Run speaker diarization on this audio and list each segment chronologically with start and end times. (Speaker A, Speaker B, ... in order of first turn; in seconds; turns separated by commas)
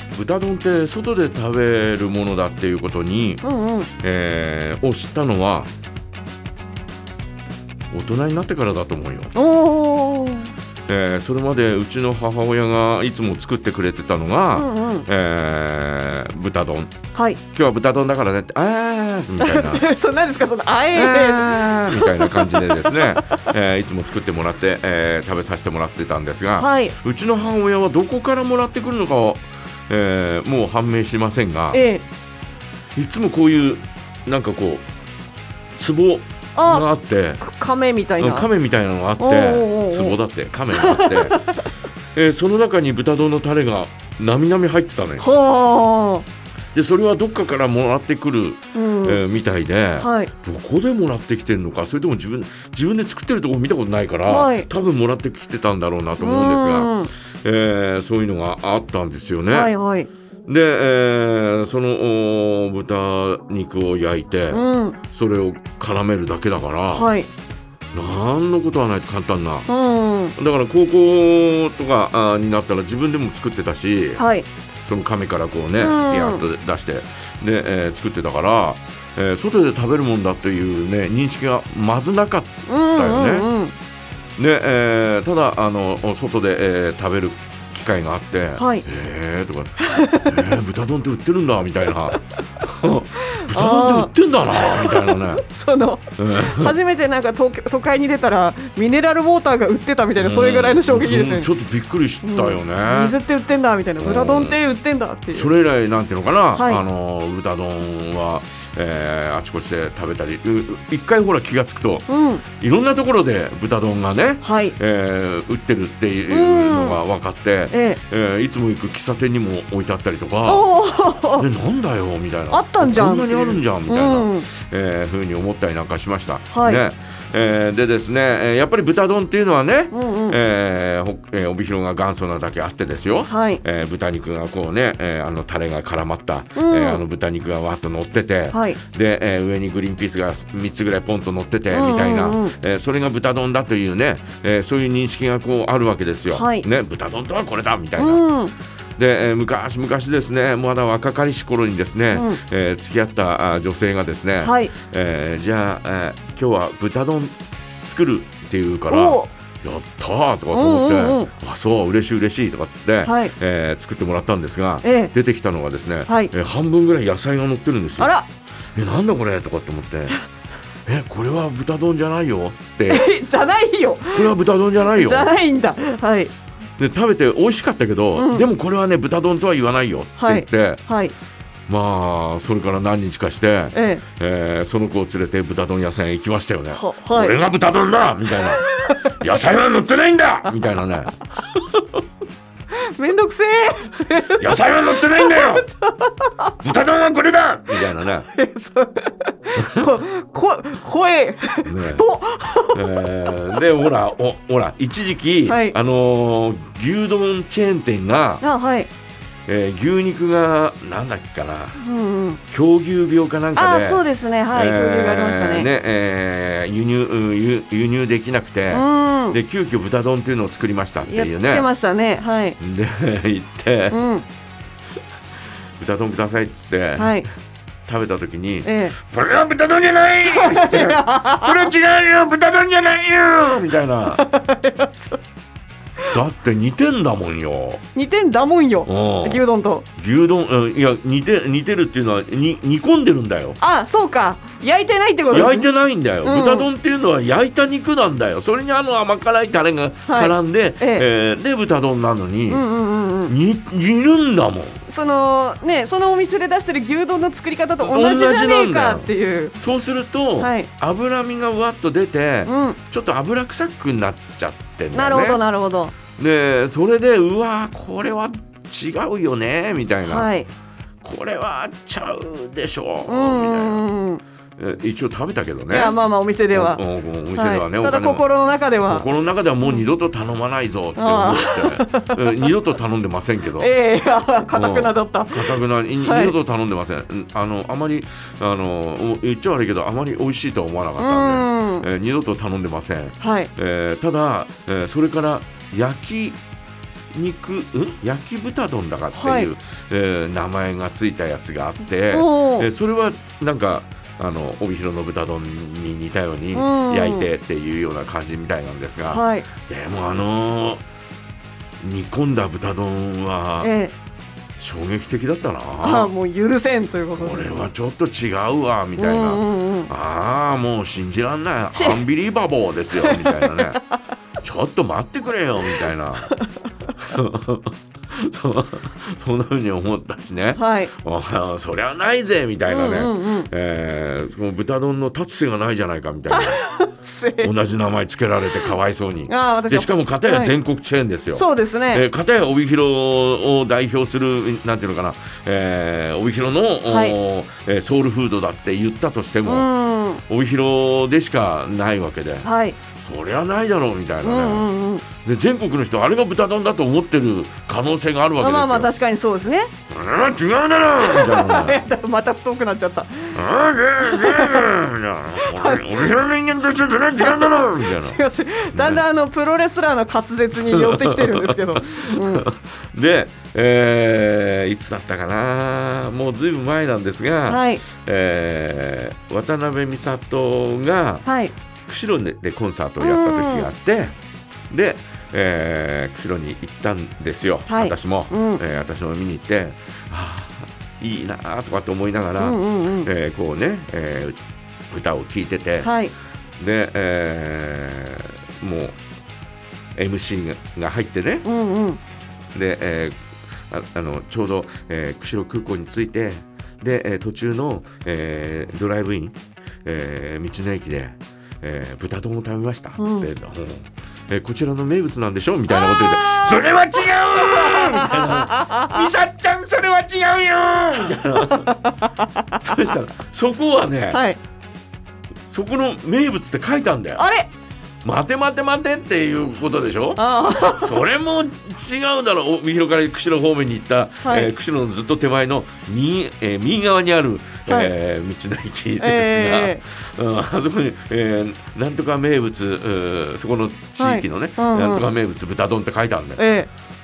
Speaker A: 0.1-3.4, Speaker B: 3.4-3.9, Speaker A: 4.0-5.7, Speaker A: 7.9-9.3, Speaker B: 9.3-10.5, Speaker A: 10.9-19.9, Speaker B: 14.6-15.1, Speaker B: 17.1-17.4, Speaker B: 19.4-23.5, Speaker A: 20.9-31.8, Speaker B: 26.6-26.9, Speaker B: 31.7-32.0, Speaker A: 33.0-34.9, Speaker A: 35.8-37.4, Speaker B: 36.6-36.9, Speaker B: 37.4-38.5, Speaker A: 38.2-41.4, Speaker B: 39.2-40.2, Speaker B: 40.7-41.7, Speaker A: 42.1-45.3, Speaker B: 45.2-46.3, Speaker A: 46.7-59.7, Speaker B: 48.8-49.2, Speaker B: 50.0-50.3, Speaker B: 54.3-54.7, Speaker B: 56.2-57.1, Speaker B: 59.5-60.1, Speaker A: 60.5-67.1, Speaker B: 64.5-65.0, Speaker B: 66.9-67.3, Speaker A: 67.9-69.7, Speaker B: 69.7-70.3, Speaker A: 70.4-74.2, Speaker B: 74.2-74.5, Speaker A: 74.8-83.5, Speaker B: 75.8-76.4, Speaker B: 82.7-83.7, Speaker A: 84.4-95.4, Speaker B: 88.6-88.8, Speaker B: 89.8-90.6, Speaker B: 93.2-101.5, Speaker A: 96.2-96.7, Speaker A: 100.2-103.2, Speaker B: 102.2-105.5, Speaker A: 104.0-104.6, Speaker A: 105.3-120.7, Speaker B: 106.5-106.8, Speaker B: 112.1-112.5, Speaker B: 114.4-114.8, Speaker B: 116.3-117.0, Speaker B: 117.7-118.0, Speaker B: 120.5-121.5, Speaker A: 121.3-148.2, Speaker B: 122.5-124.5, Speaker B: 126.5-126.8, Speaker B: 129.9-130.4, Speaker B: 133.3-133.6, Speaker B: 136.6-137.0, Speaker B: 138.5-138.8, Speaker B: 141.7-142.5, Speaker B: 146.3-146.7, Speaker B: 148.0-148.5, Speaker A: 149.0-168.1, Speaker B: 152.1-152.4, Speaker B: 154.4-154.8, Speaker B: 158.9-159.3, Speaker B: 160.5-161.3, Speaker B: 163.0-163.3, Speaker B: 164.8-165.1, Speaker B: 166.1-166.3, Speaker B: 168.0-168.3, Speaker A: 168.8-170.2, Speaker A: 170.9-173.1, Speaker B: 172.9-176.3, Speaker A: 174.1-175.3, Speaker A: 176.8-180.8, Speaker B: 178.2-178.5, Speaker B: 180.2-181.2, Speaker A: 181.7-191.1, Speaker B: 183.7-184.1, Speaker B: 186.7-187.4, Speaker B: 188.3-189.3, Speaker B: 192.7-196.5, Speaker A: 194.4-195.7, Speaker A: 196.6-198.3, Speaker B: 197.8-203.7, Speaker A: 199.6-199.9, Speaker A: 201.6-202.0, Speaker A: 202.7-208.5, Speaker B: 205.5-205.8, Speaker B: 208.4-208.9, Speaker A: 209.5-211.8, Speaker B: 211.8-212.4, Speaker A: 212.5-221.7, Speaker B: 213.6-215.7, Speaker B: 218.7-219.4, Speaker B: 221.1-222.6, Speaker A: 222.6-224.0, Speaker B: 223.9-224.2, Speaker A: 225.8-227.2, Speaker B: 227.0-227.3, Speaker A: 227.9-234.2, Speaker B: 228.6-228.9, Speaker B: 230.2-231.7, Speaker B: 234.1-235.2, Speaker A: 236.1-237.8, Speaker B: 237.9-239.9, Speaker A: 238.9-239.4, Speaker A: 240.0-243.6, Speaker B: 243.6-245.7, Speaker A: 245.3-252.6, Speaker B: 246.2-246.7, Speaker B: 250.1-251.1, Speaker B: 252.5-253.3, Speaker A: 253.3-254.8, Speaker B: 254.9-259.6, Speaker A: 257.8-265.4, Speaker B: 260.4-260.7, Speaker B: 262.5-262.8, Speaker B: 264.9-266.0, Speaker A: 266.1-270.3, Speaker B: 270.1-270.5, Speaker A: 271.0-273.8, Speaker B: 273.1-274.2, Speaker A: 274.6-276.0, Speaker B: 275.7-276.8, Speaker A: 276.5-278.2, Speaker B: 277.4-279.1, Speaker A: 278.9-283.7, Speaker B: 281.0-282.5, Speaker B: 283.6-286.4, Speaker A: 284.5-296.4, Speaker B: 291.0-291.9, Speaker B: 293.2-293.5, Speaker A: 297.1-310.8, Speaker B: 299.1-299.5, Speaker B: 302.1-302.7, Speaker B: 306.5-307.3, Speaker B: 309.1-309.5, Speaker A: 311.8-313.7, Speaker B: 313.6-313.9, Speaker A: 314.6-316.1, Speaker B: 315.8-317.6, Speaker A: 317.1-323.8, Speaker B: 319.0-319.9, Speaker B: 321.8-322.1, Speaker B: 322.9-323.9, Speaker A: 324.4-326.4, Speaker B: 325.6-326.5, Speaker A: 327.0-336.6, Speaker B: 330.6-330.9, Speaker B: 332.7-333.5, Speaker B: 336.3-337.5, Speaker A: 337.4-349.7, Speaker B: 339.3-340.5, Speaker B: 341.4-342.1, Speaker B: 346.9-347.2, Speaker B: 349.4-350.2, Speaker A: 350.3-358.9, Speaker B: 352.4-352.8, Speaker B: 354.2-355.1, Speaker B: 358.4-359.7, Speaker A: 359.9-361.8, Speaker B: 361.0-363.4, Speaker A: 363.3-368.2, Speaker B: 364.0-364.7, Speaker B: 365.4-366.1, Speaker B: 367.2-372.4, Speaker A: 368.7-369.1, Speaker A: 370.6-381.3, Speaker B: 377.5-377.8, Speaker B: 381.2-381.5, Speaker A: 381.9-384.1, Speaker B: 383.0-383.7, Speaker A: 384.7-394.4, Speaker B: 387.7-388.6, Speaker B: 392.4-393.1, Speaker A: 394.9-395.9, Speaker B: 395.8-396.1, Speaker A: 396.6-399.0, Speaker A: 400.0-401.5, Speaker B: 401.4-402.0, Speaker A: 402.5-421.7, Speaker B: 413.0-413.3, Speaker B: 415.7-419.1, Speaker B: 421.4-422.9, Speaker A: 422.6-424.2, Speaker B: 424.1-424.4, Speaker A: 425.5-427.2, Speaker B: 427.2-427.5, Speaker A: 428.0-446.4, Speaker B: 430.2-431.0, Speaker B: 434.2-434.5, Speaker B: 437.7-437.9, Speaker B: 439.0-439.8, Speaker B: 444.0-445.1, Speaker B: 446.4-446.7